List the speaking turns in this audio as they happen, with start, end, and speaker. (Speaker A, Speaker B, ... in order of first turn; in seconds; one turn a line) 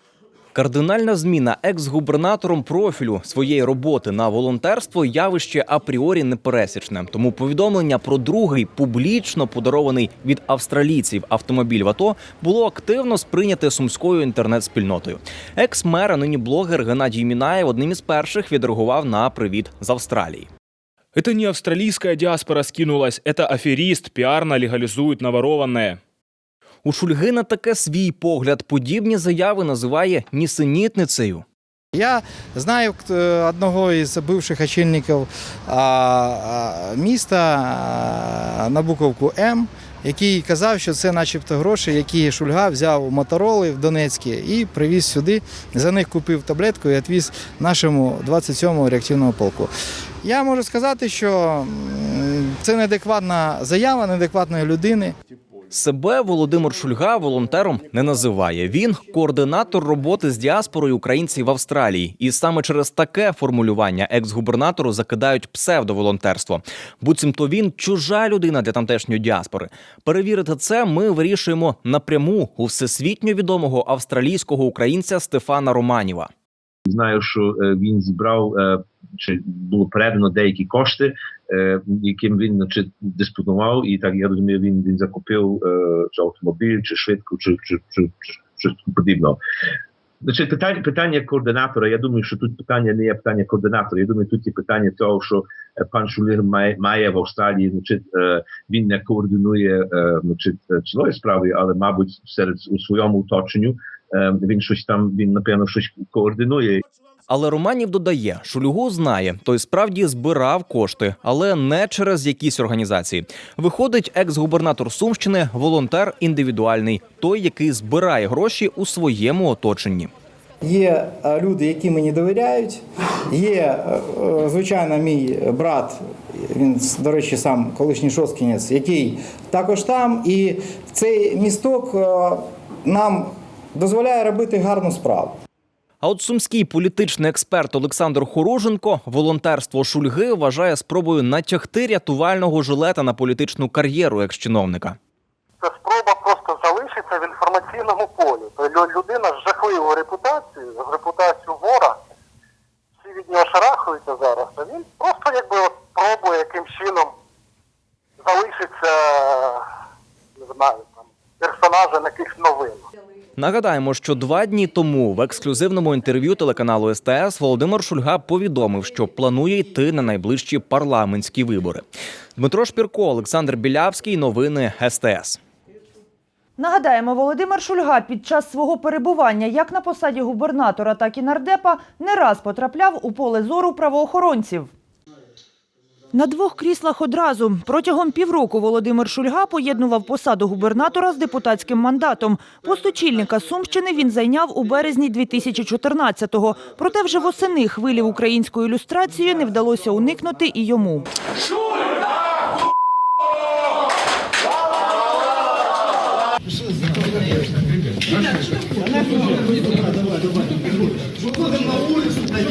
Speaker A: 0.5-20.5
Speaker B: 21.1-26.0
Speaker A: 26.9-31.4
Speaker C: 31.9-49.7
Speaker C: 50.2-55.1
Speaker A: 55.7-76.3
Speaker D: 76.9-89.4
Speaker D: 90.2-106.8
Speaker A: 107.3-120.1
Speaker C: 120.6-126.0
Speaker C: 126.5-135.4
Speaker A: 136.0-145.0
Speaker E: 145.6-152.0
Speaker E: 153.0-157.1
Speaker E: 158.2-159.6
Speaker E: 160.4-162.8
Speaker A: 163.4-171.8
Speaker A: 172.4-175.4
Speaker F: 176.6-184.7
Speaker F: 186.1-201.1